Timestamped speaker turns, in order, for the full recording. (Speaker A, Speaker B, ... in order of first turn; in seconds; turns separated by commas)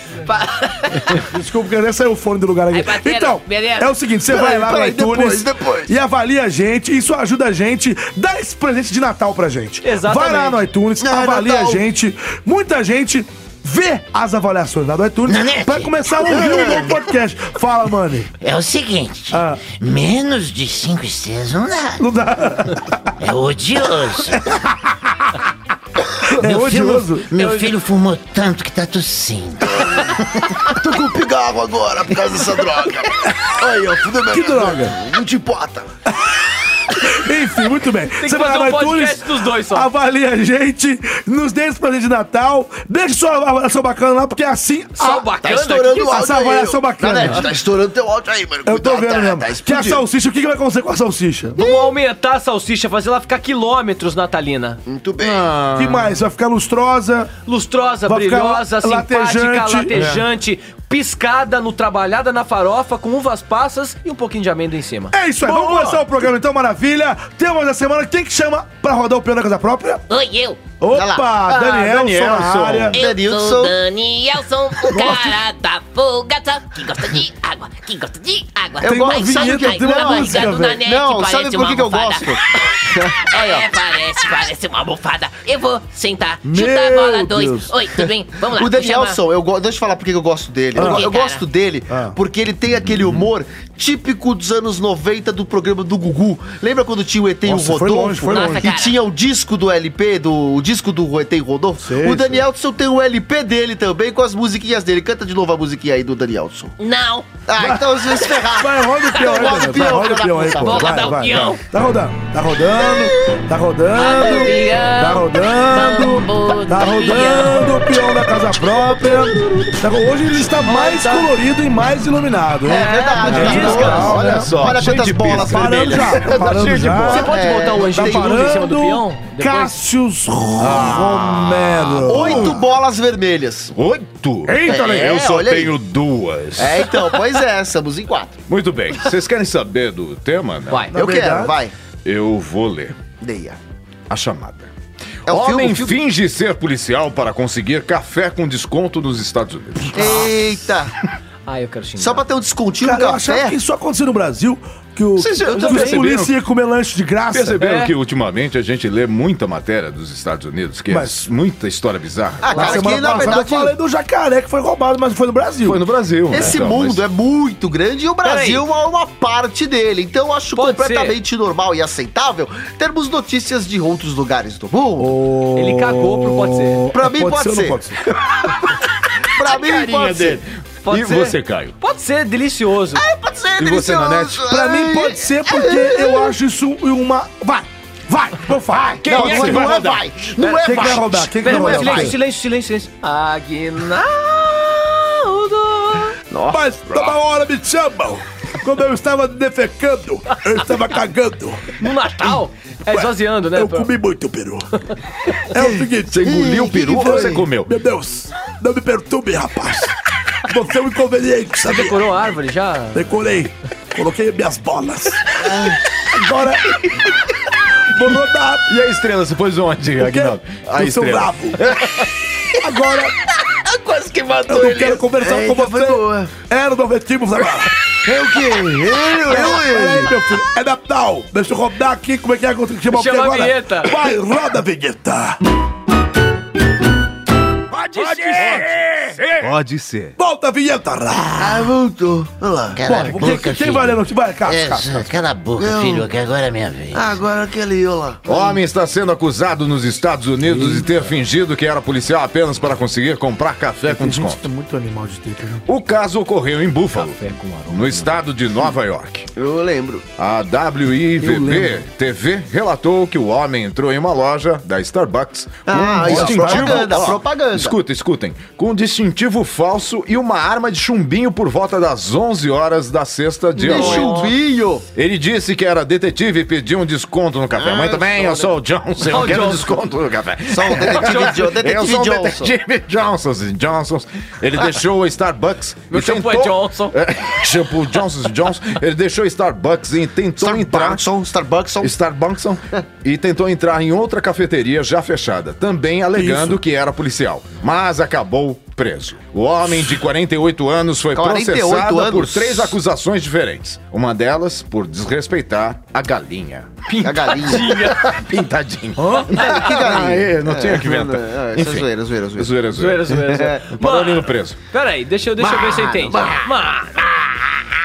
Speaker A: 0.2-1.2, Speaker B: 1.1-18.3, Speaker A: 2.7-3.9, Speaker C: 4.3-5.9, Speaker D: 9.8-10.7, Speaker C: 11.0-11.8, Speaker E: 15.3-15.9, Speaker C: 16.2-17.0, Speaker E: 18.4-22.0, Speaker B: 19.3-19.6, Speaker B: 22.0-22.8, Speaker E: 23.2-24.4, Speaker B: 24.3-24.9, Speaker E: 26.2-30.2, Speaker B: 26.2-27.3, Speaker D: 27.4-27.7, Speaker C: 29.8-30.0, Speaker C: 30.6-35.9, Speaker B: 34.3-35.0, Speaker B: 36.1-45.3, Speaker D: 38.2-39.9, Speaker D: 44.9-46.1, Speaker C: 45.4-50.0, Speaker B: 45.9-47.4, Speaker D: 47.2-47.5, Speaker B: 48.6-51.7, Speaker D: 51.5-54.8, Speaker C: 54.9-55.5, Speaker F: 55.2-56.2, Speaker B: 55.8-57.3, Speaker D: 57.4-65.2, Speaker B: 58.0-60.1, Speaker F: 59.9-60.2, Speaker B: 65.1-70.0, Speaker F: 65.6-65.9, Speaker A: 70.1-70.6, Speaker B: 70.8-73.0, Speaker C: 70.9-71.4, Speaker F: 71.5-72.9, Speaker A: 72.9-89.2, Speaker C: 72.9-73.7, Speaker B: 74.9-75.4, Speaker C: 78.8-83.7, Speaker B: 78.8-80.8, Speaker B: 86.4-87.7, Speaker C: 88.0-106.7, Speaker B: 90.7-91.1, Speaker A: 90.7-91.4, Speaker B: 91.9-92.2, Speaker F: 92.8-93.3, Speaker B: 97.4-98.7, Speaker A: 98.3-99.0, Speaker B: 101.8-102.4, Speaker A: 106.8-107.3, Speaker C: 107.5-111.1, Speaker B: 107.6-124.5, Speaker A: 109.2-109.5, Speaker A: 110.6-111.6, Speaker A: 113.9-117.9, Speaker D: 120.6-121.3, Speaker C: 122.7-126.4, Speaker D: 122.7-124.2, Speaker F: 123.3-127.3, Speaker B: 125.3-127.3, Speaker D: 127.0-129.8, Speaker C: 127.1-128.6, Speaker B: 127.9-132.6, Speaker F: 130.6-132.6, Speaker C: 132.0-133.7, Speaker F: 133.7-136.9, Speaker C: 134.6-135.7, Speaker C: 136.6-138.4, Speaker F: 138.5-140.9, Speaker B: 140.9-141.6, Speaker C: 140.9-141.7, Speaker F: 142.0-143.0, Speaker C: 143.2-143.6, Speaker F: 144.1-144.7, Speaker C: 145.2-146.0, Speaker F: 145.2-150.3, Speaker C: 149.9-150.9, Speaker D: 150.0-150.3, Speaker D: 151.4-152.2, Speaker C: 152.0-153.6, Speaker B: 152.8-157.6, Speaker F: 155.2-156.3, Speaker C: 155.5-155.8, Speaker D: 155.6-155.8, Speaker F: 157.3-162.6, Speaker D: 157.6-157.9, Speaker B: 160.9-161.3, Speaker C: 162.4-163.7, Speaker D: 162.5-163.2, Speaker B: 162.5-165.8, Speaker F: 165.6-167.0, Speaker C: 166.3-175.1, Speaker D: 168.2-168.6, Speaker D: 170.5-171.2, Speaker B: 175.0-178.0, Speaker D: 175.6-176.9, Speaker C: 176.9-177.8, Speaker F: 178.3-178.8, Speaker C: 179.3-180.4, Speaker F: 179.3-181.8, Speaker D: 180.8-183.0, Speaker C: 182.9-186.3, Speaker F: 183.6-184.4, Speaker B: 184.5-189.9, Speaker F: 188.7-190.3, Speaker C: 189.1-192.2, Speaker D: 190.4-190.8, Speaker B: 190.6-192.1, Speaker D: 191.3-196.2, Speaker C: 196.3-197.2, Speaker B: 196.5-204.7, Speaker D: 201.8-203.9, Speaker B: 205.5-212.0, Speaker C: 205.6-207.4, Speaker F: 206.1-207.7, Speaker D: 211.6-213.1, Speaker B: 212.9-217.0, Speaker C: 215.4-215.8, Speaker B: 217.9-218.7, Speaker F: 218.7-222.1, Speaker B: 220.0-221.7, Speaker B: 222.6-223.1, Speaker A: 223.4-224.6, Speaker B: 224.5-227.7, Speaker C: 224.6-226.3, Speaker C: 228.0-230.1, Speaker B: 229.2-235.4, Speaker D: 232.9-234.1, Speaker F: 237.7-240.2, Speaker B: 237.9-238.8, Speaker B: 240.2-241.7, Speaker C: 241.4-242.8, Speaker E: 242.7-247.2, Speaker B: 242.8-245.1, Speaker C: 245.6-246.1, Speaker C: 246.9-248.6, Speaker F: 248.2-254.5, Speaker B: 250.5-251.0, Speaker B: 253.8-255.6, Speaker F: 255.7-259.3, Speaker D: 256.9-258.2, Speaker C: 259.4-260.0, Speaker F: 260.2-274.3, Speaker B: 261.2-261.7, Speaker C: 265.7-267.7, Speaker B: 265.7-267.1, Speaker D: 273.6-274.4, Speaker C: 273.6-274.8, Speaker F: 274.9-291.0, Speaker C: 277.5-278.5, Speaker D: 279.0-279.8, Speaker C: 280.5-282.5, Speaker D: 280.9-281.4, Speaker D: 285.9-286.9, Speaker C: 290.4-291.9, Speaker F: 291.8-306.9, Speaker B: 296.1-296.6, Speaker C: 301.1-302.8, Speaker D: 306.9-308.2, Speaker C: 307.0-307.9, Speaker F: 308.0-314.6, Speaker B: 309.0-309.3, Speaker C: 309.3-312.6, Speaker D: 309.4-309.8, Speaker D: 312.7-317.3, Speaker C: 313.2-313.7, Speaker C: 315.4-316.5